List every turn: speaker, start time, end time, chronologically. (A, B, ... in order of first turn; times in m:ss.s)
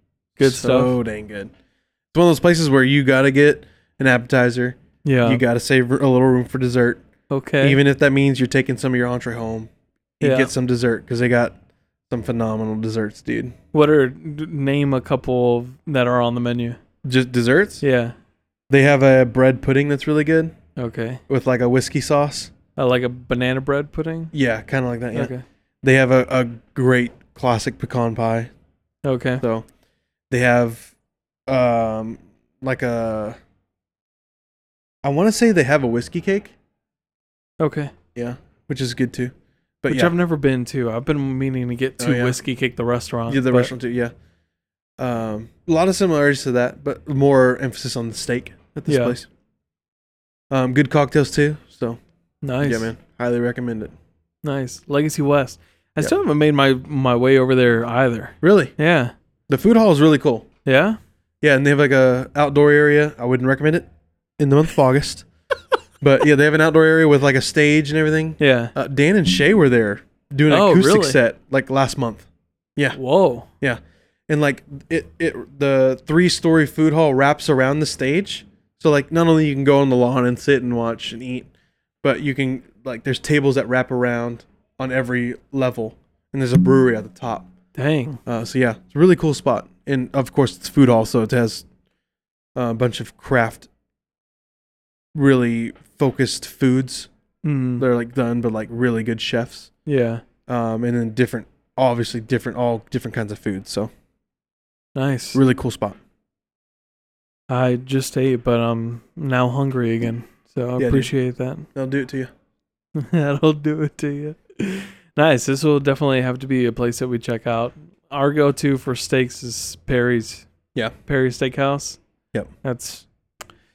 0:00.4-0:01.0 A
0:00.4-0:01.5 B
0:02.1-0:07.0 B
0:05.0-0:05.4 A
0:07.3-0:07.8 A
0:07.6-0:11.6 B
0:10.2-0:10.5 A
0:12.1-0:13.6 B
0:13.7-0:16.8 A
0:17.0-0:17.8 B
0:17.8-0:18.1 A
0:18.7-0:20.5 B
0:20.8-0:21.2 A
0:21.3-0:22.5 B
0:22.8-0:24.3 A
0:24.3-0:28.5 B
0:25.1-0:25.4 A
0:29.0-0:29.4 A
0:30.3-0:30.9 B
0:31.5-0:33.4 B
0:35.0-0:36.6 B
0:37.6-0:37.9 A
0:38.2-0:40.1 B
0:39.9-0:43.7 A
0:42.0-0:42.4 B
0:43.3-0:44.1 B
0:45.0-0:49.3 B
0:48.9-0:49.2 A
0:50.5-0:52.0 B
0:52.4-0:52.9 A
0:52.6-0:53.9 B
0:54.4-0:59.1 A
0:58.4-0:58.7 B
0:59.5-1:00.5 B
1:00.7-1:01.0 A
1:01.4-1:03.9 B
1:04.4-1:05.3 B
1:06.0-1:13.0 B
1:08.4-1:08.7 A
1:10.5-1:11.2 A
1:12.9-1:13.5 A
1:13.6-1:21.5 B
1:22.0-1:27.5 B
1:27.8-1:28.2 A
1:28.3-1:31.7 B
1:32.6-1:33.7 B
1:35.2-1:37.1 B
1:37.4-1:37.9 A
1:37.8-1:39.7 B
1:39.9-1:40.2 A
1:40.5-1:43.9 B
1:45.0-1:45.4 A
1:45.3-1:46.0 B
1:47.5-1:51.7 A
1:50.8-1:51.1 B
1:51.8-1:52.3 B
1:53.0-2:00.5 A
2:01.1-2:02.0 A
2:02.6-2:03.1 A